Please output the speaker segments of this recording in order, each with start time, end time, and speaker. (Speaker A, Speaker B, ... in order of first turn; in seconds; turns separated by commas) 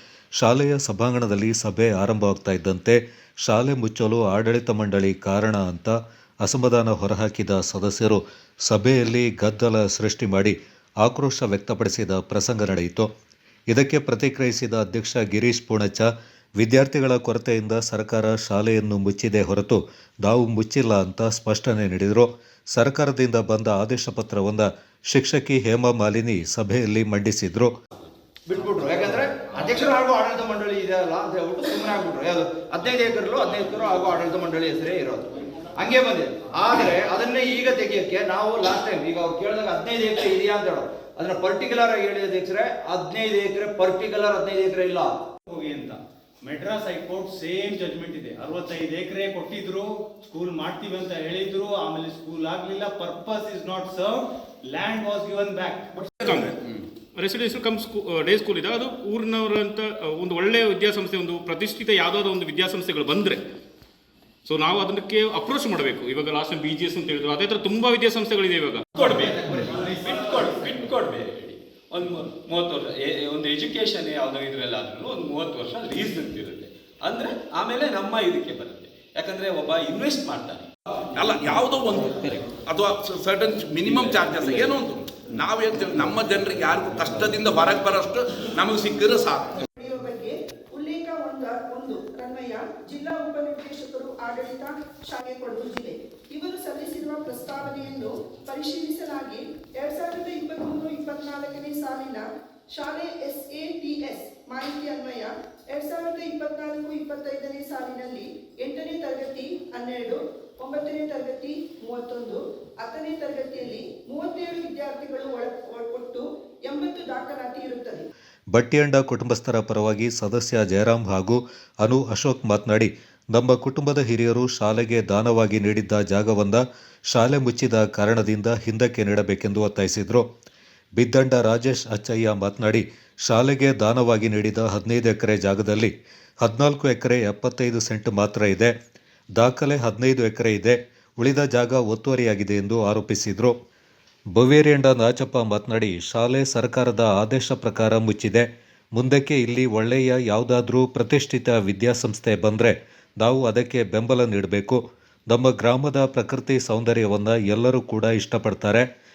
Speaker A: 0.4-13.1, Speaker A: 13.7-27.7, Speaker B: 28.4-45.2, Speaker C: 45.5-55.9, Speaker D: 57.1-63.4, Speaker D: 64.5-68.8, Speaker E: 68.9-80.7, Speaker F: 81.1-89.6, Speaker G: 89.8-118.0, Speaker A: 118.5-130.2, Speaker A: 131.0-138.7, Speaker A: 139.4-143.5, Speaker A: 144.3-158.9